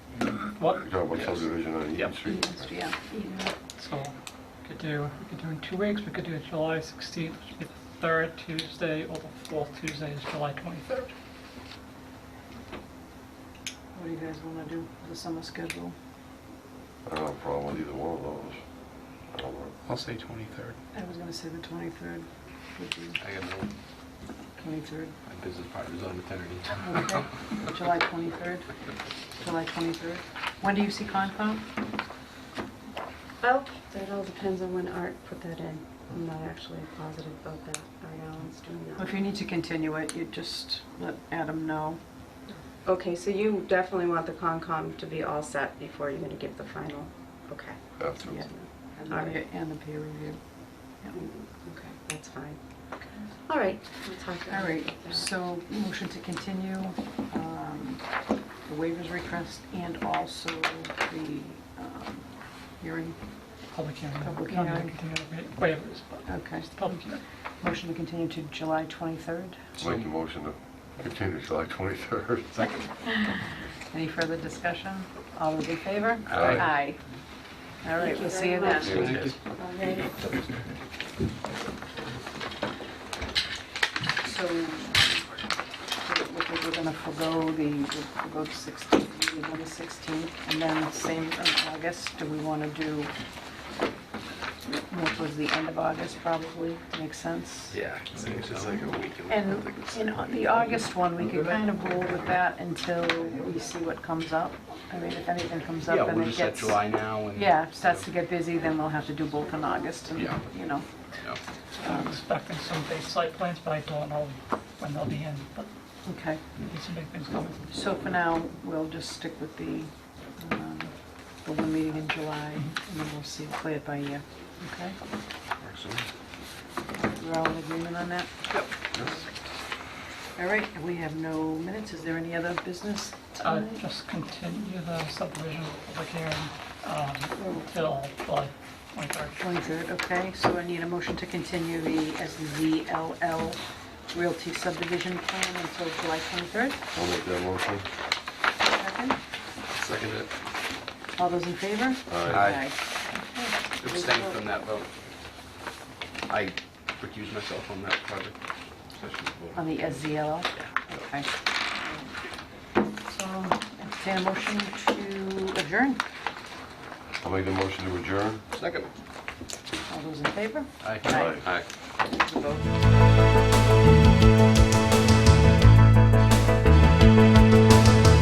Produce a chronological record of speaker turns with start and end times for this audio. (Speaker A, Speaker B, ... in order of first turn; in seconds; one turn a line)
Speaker A: 0.4-0.9
Speaker B: 0.8-2.8
Speaker C: 1.1-2.2
Speaker D: 2.4-3.5
Speaker A: 3.8-11.1
Speaker D: 13.9-15.9
Speaker B: 17.1-18.6
Speaker B: 19.3-19.7
Speaker C: 19.9-20.8
Speaker D: 20.9-23.2
Speaker C: 23.2-23.7
Speaker D: 24.6-25.1
Speaker C: 25.3-27.2
Speaker D: 26.8-28.6
Speaker D: 29.4-31.6
Speaker E: 33.4-39.3
Speaker D: 39.0-42.0
Speaker E: 42.8-49.4
Speaker B: 48.0-48.3
Speaker D: 49.0-50.4
Speaker E: 51.1-52.6
Speaker E: 53.5-55.3
Speaker D: 54.5-58.0
Speaker D: 58.6-62.2
Speaker D: 62.8-63.2
Speaker A: 63.7-67.2
Speaker D: 64.2-64.9
Speaker D: 66.3-66.8
Speaker D: 67.6-69.6
Speaker B: 69.8-72.9
Speaker C: 69.8-70.1
Speaker D: 73.9-77.0
Speaker C: 76.3-76.7
Speaker B: 76.3-76.7
Speaker D: 77.8-79.1
Speaker E: 78.0-80.1
Speaker B: 78.8-79.3
Speaker C: 78.9-79.4
Speaker D: 84.2-85.2
Speaker D: 86.0-93.1
Speaker D: 94.7-97.8
Speaker C: 97.7-100.1
Speaker D: 99.2-110.9
Speaker C: 105.8-108.1
Speaker C: 110.1-110.4
Speaker A: 111.8-115.7
Speaker D: 111.8-112.2
Speaker D: 116.0-116.4
Speaker A: 116.6-117.6
Speaker D: 117.7-125.0
Speaker C: 125.6-126.1
Speaker D: 126.9-128.3
Speaker D: 130.4-133.8
Speaker A: 133.4-139.4
Speaker D: 137.4-137.7
Speaker D: 139.4-143.6
Speaker D: 144.1-146.9
Speaker B: 146.9-147.9
Speaker D: 148.7-149.2
Speaker C: 149.7-150.3
Speaker D: 151.2-154.4
Speaker B: 152.1-152.5
Speaker C: 152.3-152.7
Speaker C: 153.8-154.9
Speaker C: 156.3-158.4
Speaker C: 158.9-159.6
Speaker D: 159.6-161.3
Speaker D: 163.1-166.0
Speaker B: 167.2-168.4
Speaker C: 168.5-168.9
Speaker D: 169.9-171.4
Speaker C: 170.8-171.7
Speaker B: 171.1-171.4
Speaker E: 172.1-172.6